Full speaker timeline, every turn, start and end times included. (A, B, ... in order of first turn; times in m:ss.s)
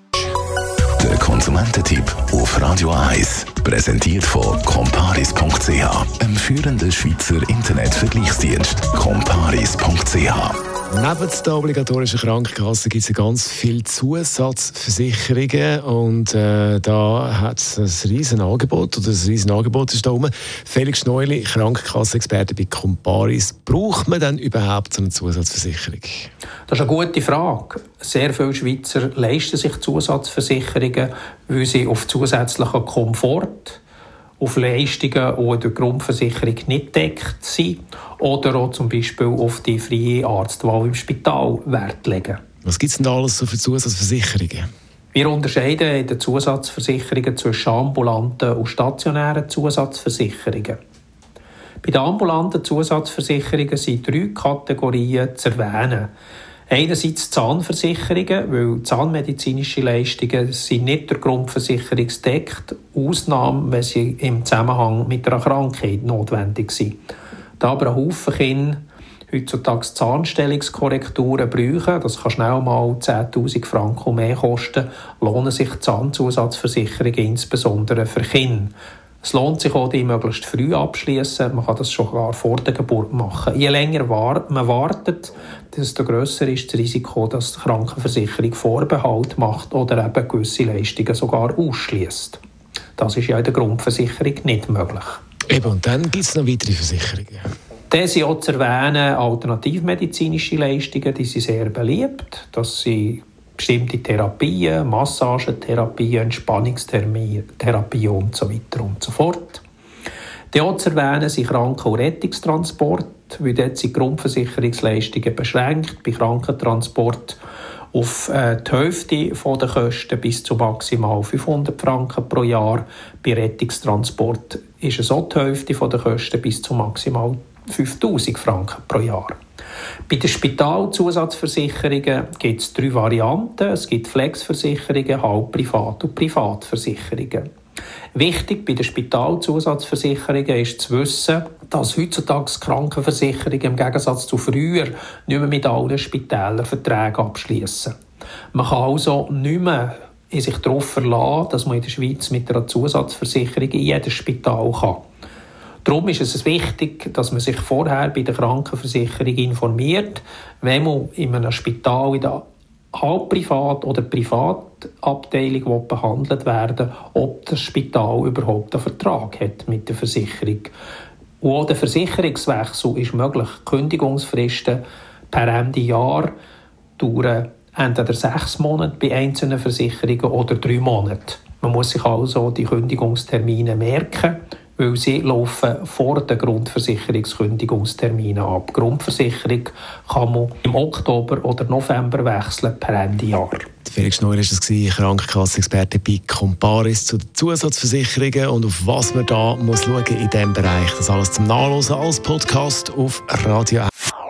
0:01.0-0:10.6 A
0:11.0-0:26.3 B
0:26.7-0:33.8 C
0:34.4-0:42.4 C
0:42.6-0:44.7 B
0:45.1-0:50.8 C
0:51.8-0:56.1 C
0:56.7-1:07.0 C
1:07.6-1:32.4 C
1:33.0-1:35.2 C
1:35.5-1:37.4 B
1:37.9-1:49.6 C
1:50.5-1:57.4 C
1:57.9-2:09.4 C
2:10.1-2:17.5 C
2:18.2-2:28.0 C
2:28.5-2:35.0 C
2:35.8-2:50.7 C
2:51.4-2:56.3 C
2:57.0-3:13.7 C
3:13.9-3:23.9 B